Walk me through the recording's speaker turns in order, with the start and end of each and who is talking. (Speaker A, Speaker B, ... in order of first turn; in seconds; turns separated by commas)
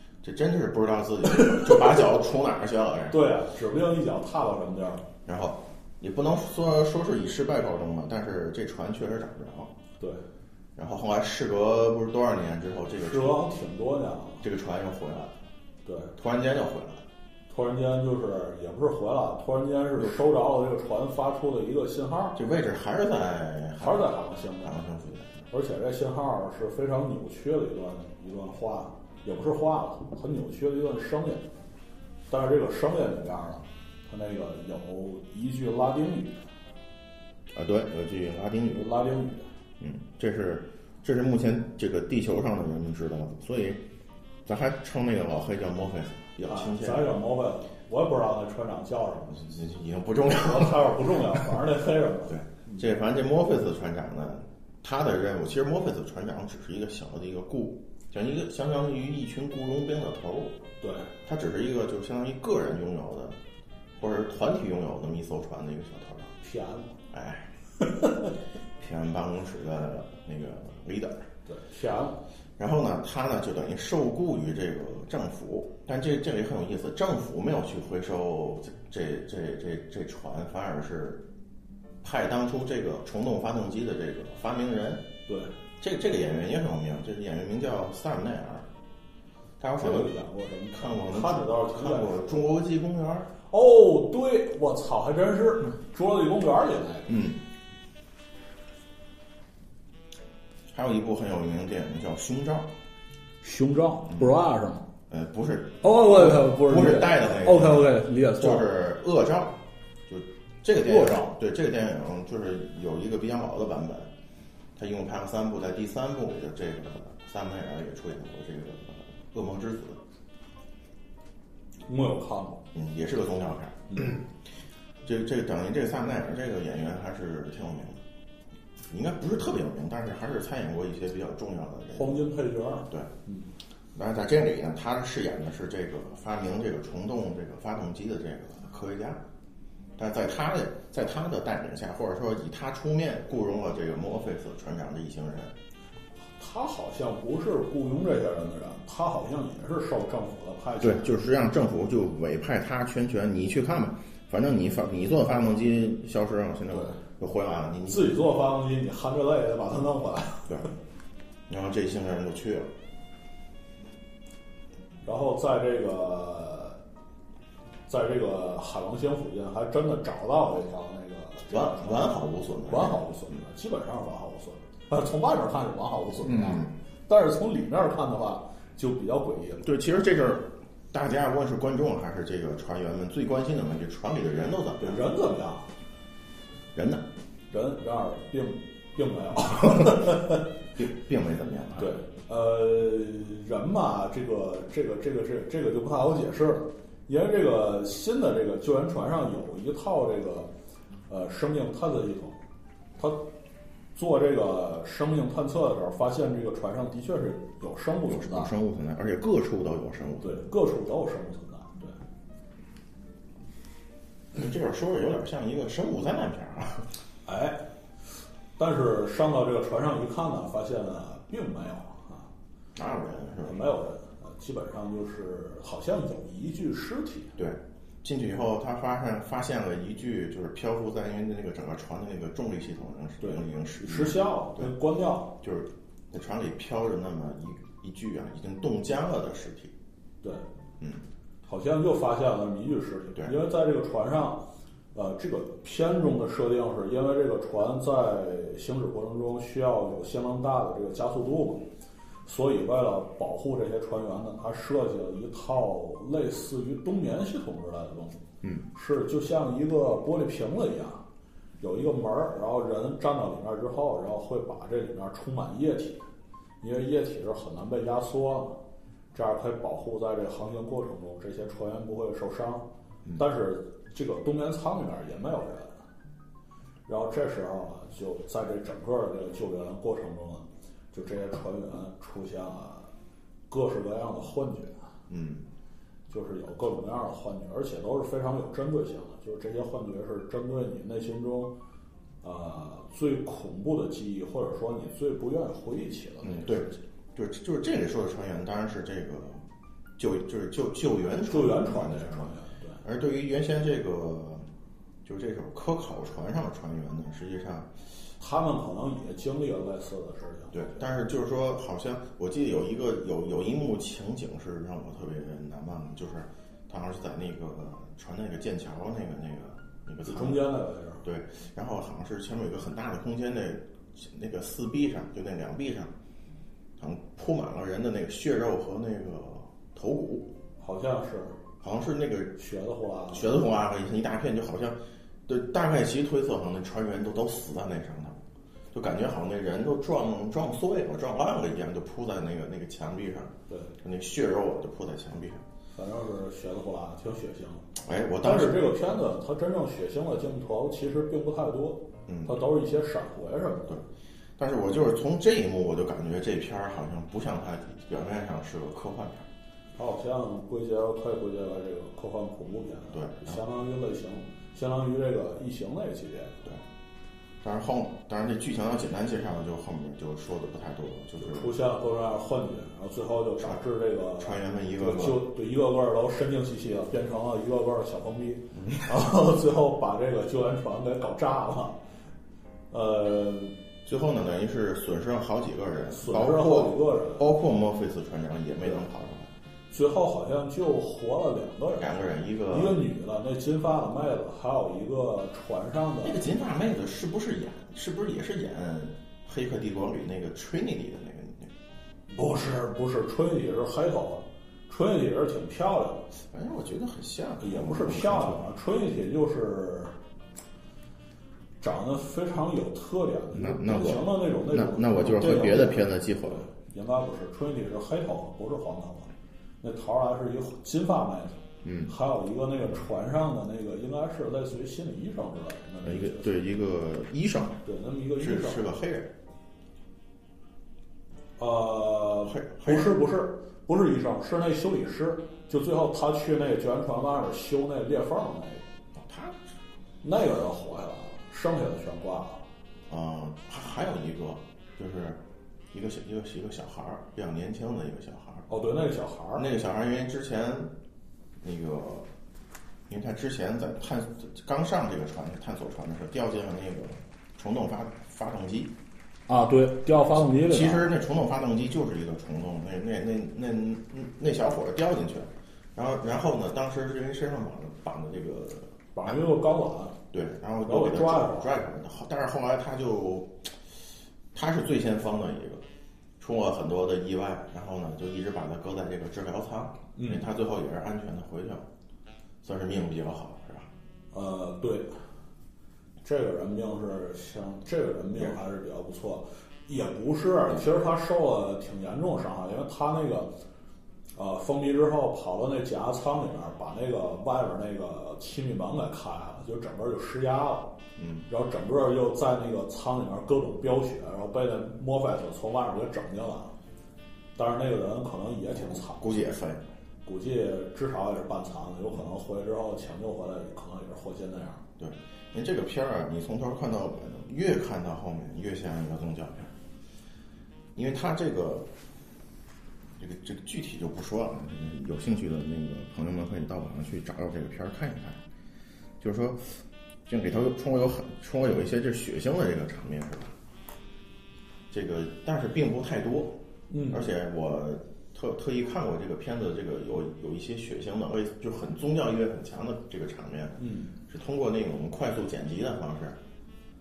Speaker A: 0.2-3.2, Speaker B: 1.3-1.9, Speaker B: 3.1-5.0, Speaker A: 5.2-9.7, Speaker A: 10.8-13.4, Speaker B: 13.0-14.4, Speaker A: 14.4-15.3, Speaker B: 15.8-16.1, Speaker A: 16.1-17.0, Speaker B: 17.5-22.4, Speaker A: 22.3-25.4, Speaker B: 23.8-24.8, Speaker B: 25.5-31.4, Speaker B: 32.3-36.4, Speaker A: 37.5-38.9, Speaker B: 38.7-39.5, Speaker A: 39.8-43.8, Speaker A: 44.4-47.1, Speaker B: 46.5-49.4, Speaker A: 49.3-51.0, Speaker B: 50.4-52.8, Speaker A: 52.3-60.6, Speaker B: 60.8-61.1, Speaker A: 61.2-63.4, Speaker A: 64.0-66.3, Speaker B: 66.4-66.9, Speaker A: 67.1-67.5, Speaker B: 67.8-68.3, Speaker A: 68.8-71.3, Speaker B: 71.5-72.2, Speaker A: 72.6-81.2, Speaker A: 82.0-85.0, Speaker B: 85.3-85.5, Speaker A: 85.8-88.7, Speaker A: 89.6-90.1, Speaker B: 89.8-92.5, Speaker A: 90.7-93.3, Speaker B: 93.5-97.2, Speaker A: 97.1-97.4, Speaker A: 100.7-102.7, Speaker B: 103.4-104.8, Speaker A: 105.1-114.1, Speaker B: 105.8-108.7, Speaker B: 110.8-111.3, Speaker A: 114.8-120.0, Speaker B: 121.9-122.6, Speaker A: 122.7-124.2, Speaker B: 123.9-124.2, Speaker A: 125.0-128.0, Speaker A: 128.9-132.2, Speaker B: 131.9-133.5, Speaker A: 133.9-139.2, Speaker A: 140.0-145.5, Speaker B: 146.4-151.1, Speaker A: 150.8-158.2, Speaker B: 156.7-157.0, Speaker B: 157.9-160.7, Speaker A: 161.5-162.7, Speaker B: 165.0-166.8, Speaker B: 167.9-172.2, Speaker A: 171.5-173.3, Speaker B: 172.7-179.7, Speaker A: 176.2-176.7, Speaker A: 179.6-185.1, Speaker B: 184.8-185.7, Speaker A: 186.7-187.0, Speaker B: 187.5-190.4, Speaker A: 190.7-191.9, Speaker B: 191.8-200.5, Speaker B: 201.1-202.4, Speaker B: 203.0-203.2, Speaker B: 203.9-208.5, Speaker A: 208.1-210.4, Speaker B: 210.2-212.0, Speaker A: 214.3-216.9, Speaker B: 217.2-217.7, Speaker B: 218.6-222.3, Speaker A: 222.7-223.6, Speaker B: 223.4-227.3, Speaker A: 227.4-234.7, Speaker B: 233.2-235.3, Speaker A: 235.4-239.7, Speaker B: 241.4-251.6, Speaker B: 252.2-261.0, Speaker B: 261.6-266.1, Speaker B: 266.6-268.6, Speaker B: 269.1-275.8, Speaker B: 276.9-282.9, Speaker B: 283.5-284.9, Speaker A: 285.1-285.4, Speaker B: 286.1-291.5, Speaker B: 292.2-296.8, Speaker A: 296.2-299.4, Speaker A: 300.0-304.4, Speaker B: 301.3-302.8, Speaker A: 305.0-307.7, Speaker B: 308.2-310.6, Speaker A: 310.5-320.5, Speaker B: 320.0-321.0, Speaker A: 321.0-325.9, Speaker A: 326.8-330.3, Speaker B: 330.6-331.4, Speaker A: 331.6-332.4, Speaker B: 332.4-333.5, Speaker A: 333.1-338.2, Speaker A: 338.7-345.4, Speaker B: 345.7-347.7, Speaker A: 347.8-348.6, Speaker B: 348.2-353.8, Speaker A: 352.1-352.4, Speaker A: 354.4-359.3, Speaker B: 359.8-366.4, Speaker A: 362.9-363.4, Speaker A: 367.4-371.5, Speaker B: 371.2-381.8, Speaker A: 374.2-375.2, Speaker A: 378.5-378.8, Speaker B: 382.7-383.6, Speaker A: 383.8-389.3, Speaker B: 385.9-387.3, Speaker B: 389.7-391.9, Speaker A: 391.7-392.8, Speaker B: 392.5-396.2, Speaker A: 396.0-401.5, Speaker B: 402.1-406.1, Speaker A: 406.1-408.4, Speaker B: 407.4-409.9, Speaker B: 411.6-419.1, Speaker A: 413.3-416.5, Speaker B: 419.6-426.3, Speaker A: 421.6-421.9, Speaker A: 425.8-427.6, Speaker B: 427.6-428.6, Speaker A: 428.2-429.1, Speaker B: 431.4-438.6, Speaker A: 432.2-433.0, Speaker A: 438.9-439.4, Speaker B: 440.0-442.4, Speaker A: 442.9-448.5, Speaker B: 448.5-449.5, Speaker A: 449.4-450.7, Speaker A: 451.4-452.1, Speaker A: 452.9-458.7, Speaker B: 459.3-460.9, Speaker A: 460.1-468.8, Speaker B: 468.9-470.0, Speaker A: 470.1-473.7, Speaker B: 470.6-471.5, Speaker A: 474.3-475.6, Speaker A: 476.2-481.7, Speaker B: 479.9-480.3, Speaker A: 482.4-483.7, Speaker B: 484.1-484.9, Speaker B: 486.0-493.3, Speaker B: 494.1-500.8, Speaker A: 501.0-501.2, Speaker B: 501.3-506.5, Speaker B: 507.4-509.2, Speaker A: 508.5-509.6, Speaker B: 510.0-514.6, Speaker A: 514.8-519.5, Speaker A: 520.7-521.7, Speaker A: 523.0-528.2, Speaker A: 529.0-533.4, Speaker A: 534.7-536.4, Speaker B: 536.7-537.1, Speaker A: 536.9-546.2, Speaker B: 543.6-544.0